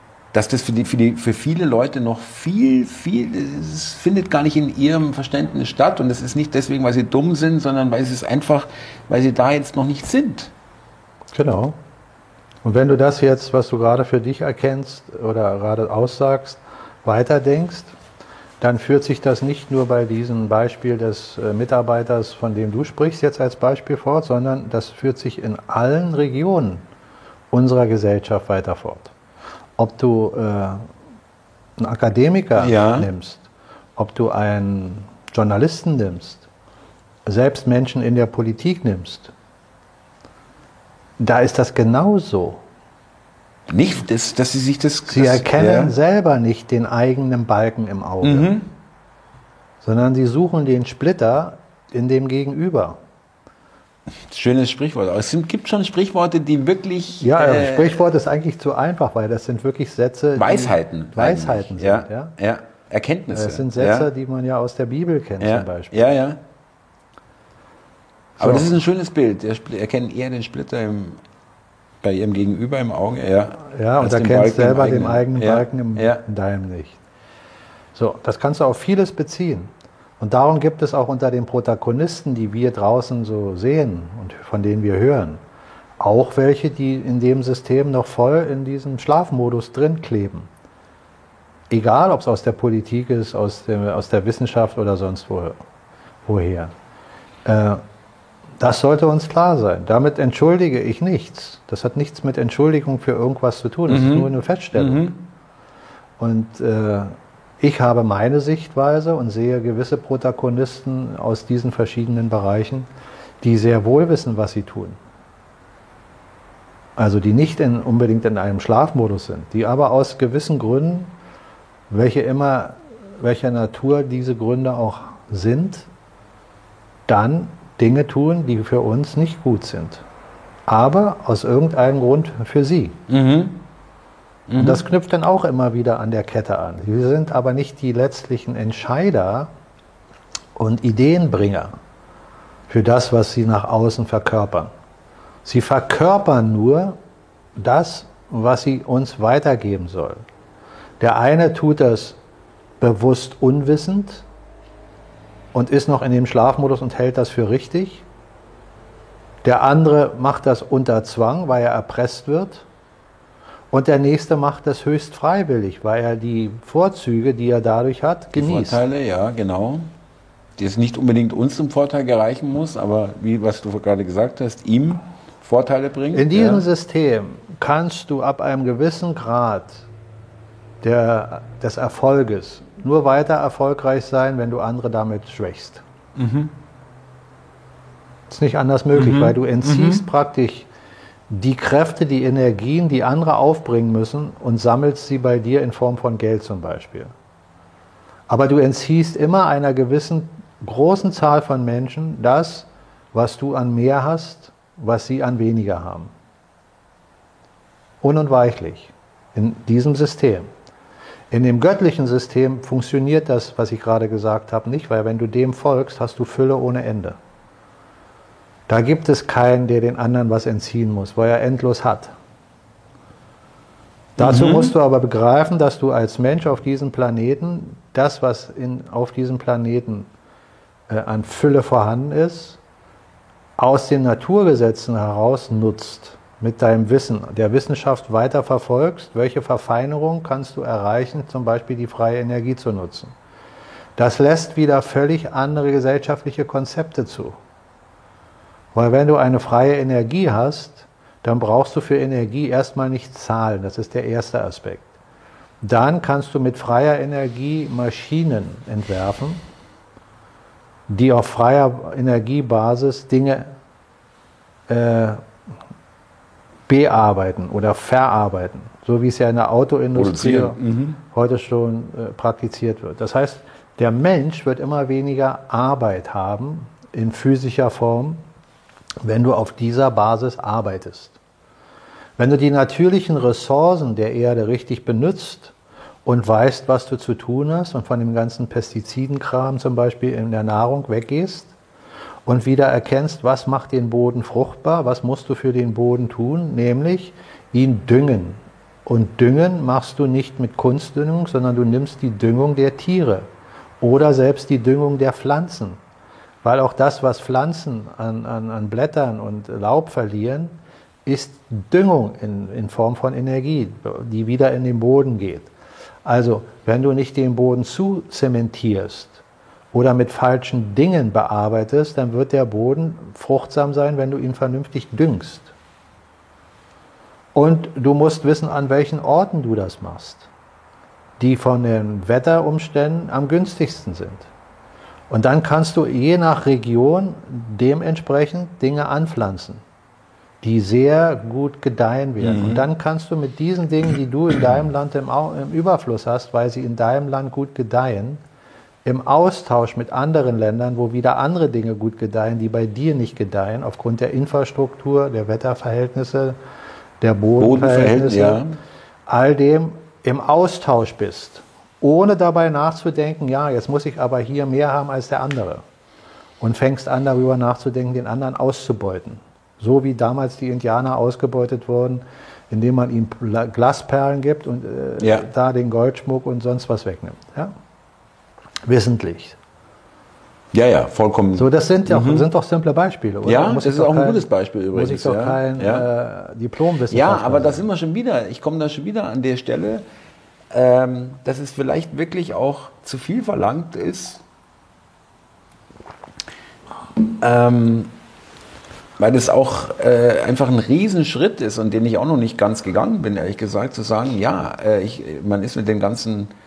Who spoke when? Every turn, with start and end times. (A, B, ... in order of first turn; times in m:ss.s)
0:00.3-0:10.5 A
0:11.3-0:11.7 B
0:12.6-0:17.9 B
0:18.6-0:26.8 B
0:27.5-0:29.1 B
0:29.8-0:30.8 B
0:31.8-0:36.5 B
0:32.6-0:33.1 A
0:37.2-0:39.3 B
0:41.2-0:42.6 B
0:43.7-0:45.9 A
0:45.1-0:48.5 B
0:48.2-0:48.7 A
0:49.8-0:53.0 B
0:54.3-0:58.0 A
0:57.2-1:02.3 B
1:00.4-1:04.1 A
1:03.3-1:06.0 B
1:05.4-1:06.4 A
1:08.4-1:08.7 B
1:08.4-1:11.2 A
1:12.0-1:16.2 A
1:13.6-1:17.0 B
1:17.9-1:25.4 B
1:26.0-1:30.5 B
1:31.7-1:35.6 B
1:36.2-1:36.7 B
1:37.4-1:37.8 B
1:38.6-1:45.1 B
1:43.9-1:45.2 A
1:46.2-1:52.9 B
1:53.4-1:55.0 B
1:57.0-2:01.1 B
2:01.9-2:05.9 B
2:07.1-2:10.0 B
2:10.7-2:13.0 B
2:13.1-2:13.6 A
2:14.5-2:14.8 A
2:14.6-2:19.5 B
2:20.6-2:21.7 B
2:22.7-2:24.7 B
2:25.4-2:27.0 B
2:27.6-2:30.2 B
2:31.0-2:32.2 B
2:32.8-2:34.2 B
2:35.5-2:38.0 B
2:39.4-2:42.6 B
2:43.7-2:48.8 B
2:48.4-2:49.9 A
2:50.6-2:56.6 A
2:56.1-2:59.8 B
3:00.8-3:05.8 B
3:06.2-3:06.5 A
3:08.3-3:10.7 B
3:08.9-3:10.0 A
3:11.3-3:17.1 B
3:18.3-3:26.1 B
3:28.0-3:30.5 B
3:31.3-3:37.2 B
3:38.7-3:42.1 B
3:44.2-3:50.1 B
3:44.2-3:44.7 A
3:50.9-3:52.6 B
3:53.6-4:03.1 B
4:04.0-4:07.4 B
4:08.7-4:14.9 B
4:15.6-4:19.4 B
4:20.9-4:23.5 B
4:24.7-4:25.2 B
4:26.7-4:30.6 B
4:30.0-4:31.0 A
4:31.1-4:38.2 B
4:39.0-4:41.2 B
4:42.2-4:45.5 B
4:46.0-4:51.5 B
4:52.2-5:03.3 B
5:03.8-5:05.8 B
5:06.4-5:10.5 B
5:11.0-5:15.5 B
5:16.0-5:19.2 B
5:19.7-5:25.5 B
5:27.3-5:30.3 B
5:31.2-5:34.3 B
5:35.1-5:39.6 B
5:40.4-5:48.2 B
5:42.2-5:42.6 A
5:48.8-5:56.4 B
5:57.0-5:58.4 B
5:57.4-5:58.5 A
5:59.1-6:05.6 B
6:06.4-6:17.5 B
6:15.0-6:15.2 A
6:18.7-6:19.4 B
6:20.5-6:22.3 A
6:21.3-6:27.6 B
6:23.2-6:25.9 A
6:26.9-6:29.8 A
6:30.5-6:34.2 A
6:37.2-6:37.9 A
6:39.0-6:46.3 A